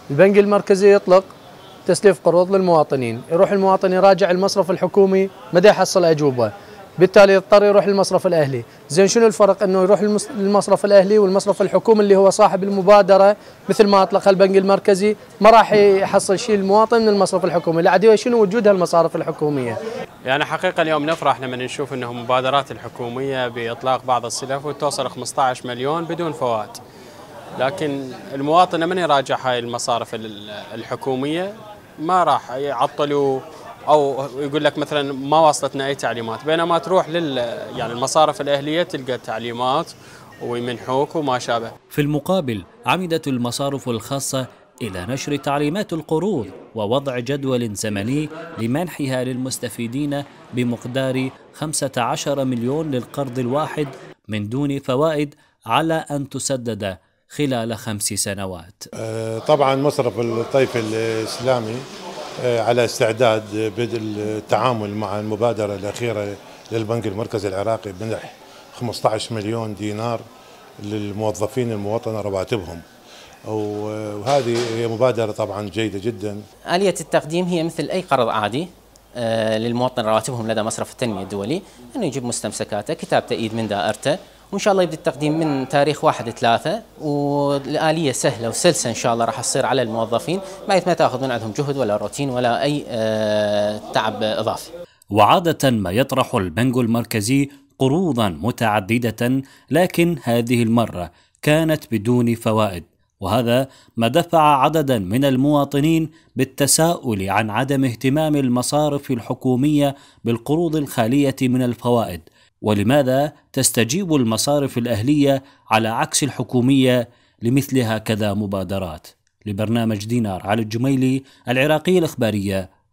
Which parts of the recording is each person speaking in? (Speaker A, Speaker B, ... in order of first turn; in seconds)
Speaker A: 0.1-1.3, 1.9-19.8
Speaker B: 20.2-26.8, 27.6-41.7
Speaker C: 41.9-58.9, 95.1-122.7
Speaker D: 59.0-61.8, 62.4-70.2, 70.8-72.8, 73.5-76.4
Speaker E: 76.7-94.7